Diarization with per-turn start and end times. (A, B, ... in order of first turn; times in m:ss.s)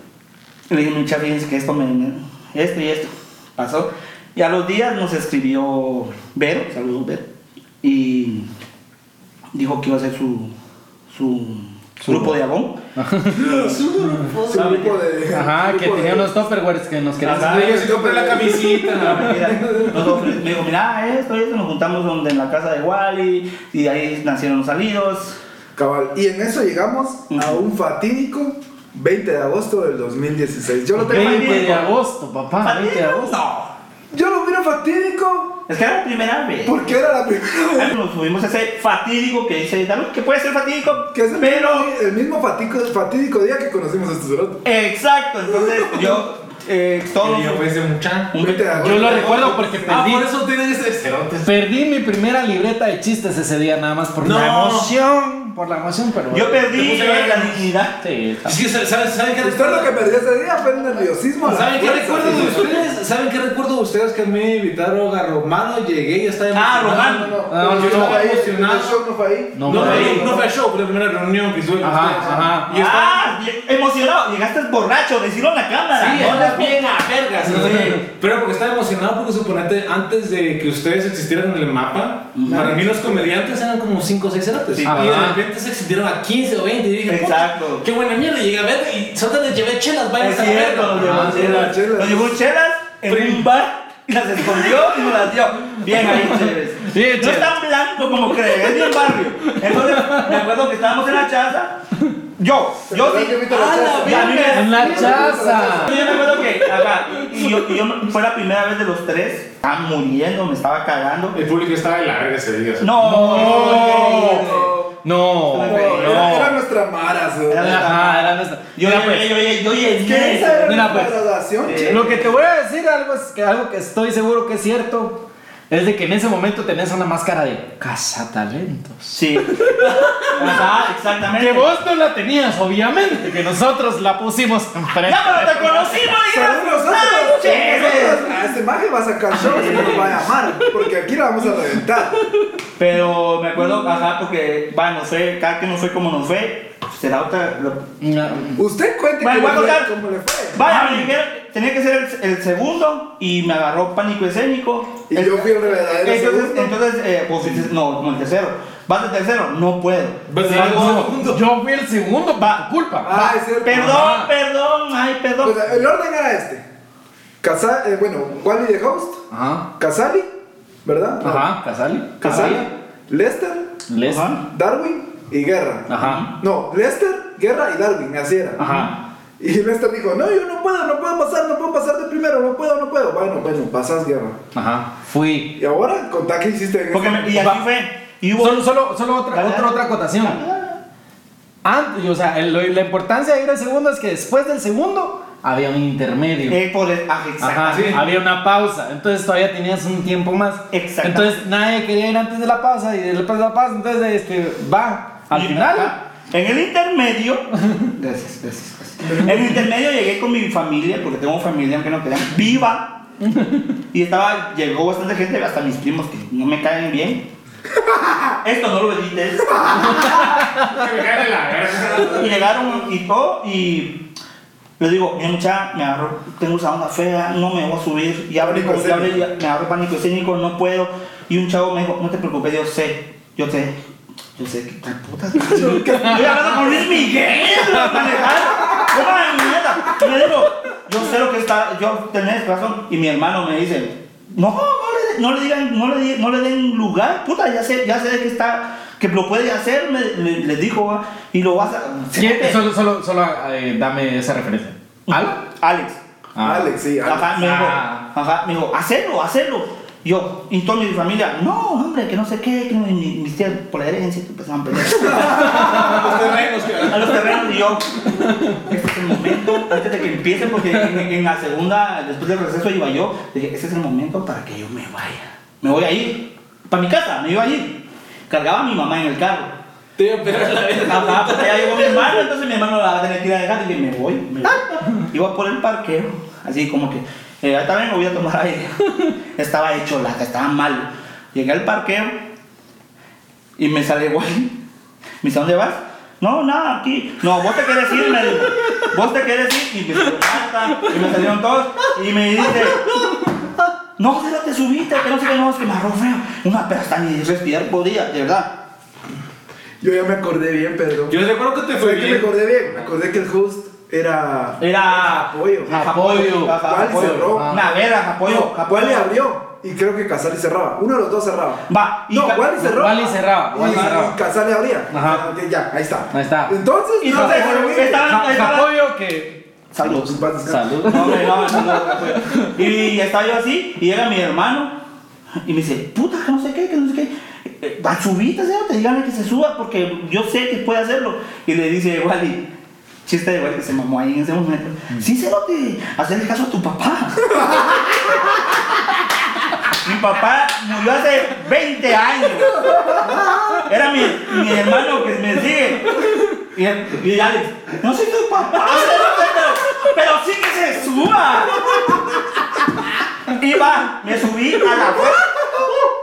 0:00.7-0:07.3 A
0:07.8-0:08.5 A
0:09.5-0:10.5 A
0:11.1-0:12.8 A
0:12.0-0:12.4 B
0:13.0-0:13.6 B
0:13.3-0:16.3 C
0:14.5-0:15.0 A
0:15.3-0:19.3 B
0:17.2-0:17.8 A
0:17.3-0:20.3 D
0:17.6-0:18.8 C
0:19.0-0:25.4 A
0:25.8-0:31.8 C
0:27.3-0:27.6 A
0:31.0-0:31.9 A
0:31.0-0:33.4 B
0:32.6-0:33.7 A
0:34.1-0:35.6 C
0:35.7-0:36.9 A
0:36.6-0:38.0 C
0:37.7-0:41.9 A
0:41.1-0:44.6 C
0:44.6-0:47.6 A
0:47.2-0:48.3 D
0:48.3-0:50.0 A
0:48.3-0:49.9 C
0:48.8-0:50.2 B
0:49.9-0:51.5 D
0:51.4-0:56.6 B
0:54.2-0:55.1 D
0:56.3-0:58.0 A
0:56.6-0:57.6 D
0:58.0-0:58.6 B
0:58.4-1:00.0 D
0:59.4-1:02.8 C
1:01.4-1:09.0 D
1:06.5-1:07.4 A
1:07.0-1:10.5 C
1:07.5-1:08.4 B
1:09.6-1:10.3 B
1:09.6-1:13.3 D
1:11.8-1:12.7 B
1:12.7-1:18.0 A
1:16.0-1:31.8 D
1:22.3-1:22.8 A
1:22.5-1:23.3 C
1:24.8-1:25.3 A
1:24.8-1:25.4 B
1:27.1-1:27.9 A
1:30.2-1:41.8 A
1:31.0-1:31.3 B
1:31.3-1:32.4 C
1:33.1-1:33.4 D
1:35.9-1:37.5 B
1:38.4-1:39.0 B
1:39.6-1:40.3 B
1:42.4-1:51.4 A
1:42.9-1:46.2 C
1:43.5-1:45.3 D
1:44.5-1:46.4 B
1:46.0-1:46.5 D
1:51.3-1:54.4 D
1:52.8-1:54.4 A
1:53.0-1:56.6 B
1:53.3-1:54.9 C
1:55.5-1:56.3 A
1:55.5-1:57.8 C
1:57.5-2:01.1 A
1:57.6-1:59.4 B
2:00.0-2:02.3 C
2:00.5-2:01.2 B
2:01.6-2:02.3 A
2:01.8-2:10.7 B
2:09.1-2:09.8 A
2:10.3-2:11.7 A
2:11.3-2:16.0 B
2:15.0-2:18.3 A
2:16.2-2:22.2 C
2:19.3-2:20.2 B
2:19.3-2:20.2 A
2:22.8-2:27.8 A
2:28.0-2:28.6 B
2:28.6-2:30.7 C
2:29.2-2:29.9 A
2:30.5-2:40.3 A
2:30.6-2:31.1 B
2:35.1-2:36.8 C
2:40.3-2:41.4 D
2:40.4-2:44.3 B
2:42.4-2:45.6 A
2:43.0-2:44.1 C
2:45.4-2:46.6 C
2:47.4-2:49.2 C
2:49.3-2:49.7 B
2:49.8-2:50.3 C
2:50.8-2:51.5 C
2:51.2-2:52.6 B
2:52.2-2:53.8 C
2:52.2-2:52.6 A
2:53.9-2:54.3 B
2:54.0-2:54.4 A
2:54.4-2:58.9 C
2:55.9-2:56.2 B
2:56.0-2:56.3 A
2:58.6-2:59.0 B
2:59.4-3:04.4 C
3:04.5-3:05.6 B
3:05.6-3:07.5 C
3:06.9-3:08.7 A
3:08.4-3:10.4 B
3:09.3-3:10.8 A
3:11.6-3:16.6 B
3:16.5-3:17.9 A
3:17.4-3:25.9 B
3:17.7-3:18.0 D
3:20.7-3:21.4 A
3:25.3-3:33.0 A
3:33.9-3:37.3 A
3:38.3-3:40.4 A
3:40.0-3:42.5 D
3:41.8-3:42.4 C
3:42.0-3:44.1 A
3:44.8-3:53.8 A
3:48.4-3:49.2 C
3:54.4-4:12.6 A
3:55.4-3:56.8 C
4:12.2-4:15.4 B
4:15.1-4:16.0 A
4:16.4-4:16.7 B
4:16.4-4:17.3 C
4:17.0-4:26.3 A
4:17.3-4:18.0 B
4:25.1-4:27.6 D
4:26.8-4:39.5 A
4:40.0-4:42.1 D
4:40.8-4:52.3 A
4:53.6-4:54.6 A
4:55.2-5:02.8 A
5:02.5-5:03.0 B
5:04.0-5:08.6 A
5:09.8-5:11.2 C
5:11.1-5:12.3 D
5:11.7-5:15.8 C
5:14.6-5:19.1 A
5:15.7-5:17.6 B
5:16.6-5:17.7 C
5:18.2-5:28.2 C
5:21.7-5:22.8 A
5:22.6-5:24.1 B
5:24.9-5:25.2 B
5:26.1-5:29.4 B
5:27.0-5:28.7 A
5:29.7-5:30.2 A
5:29.8-5:31.6 C
5:30.4-5:32.5 B
5:30.8-5:34.7 A
5:35.4-5:42.5 A
5:43.0-5:48.6 A
5:49.7-6:02.2 A
6:03.2-6:05.5 A
6:05.3-6:05.9 C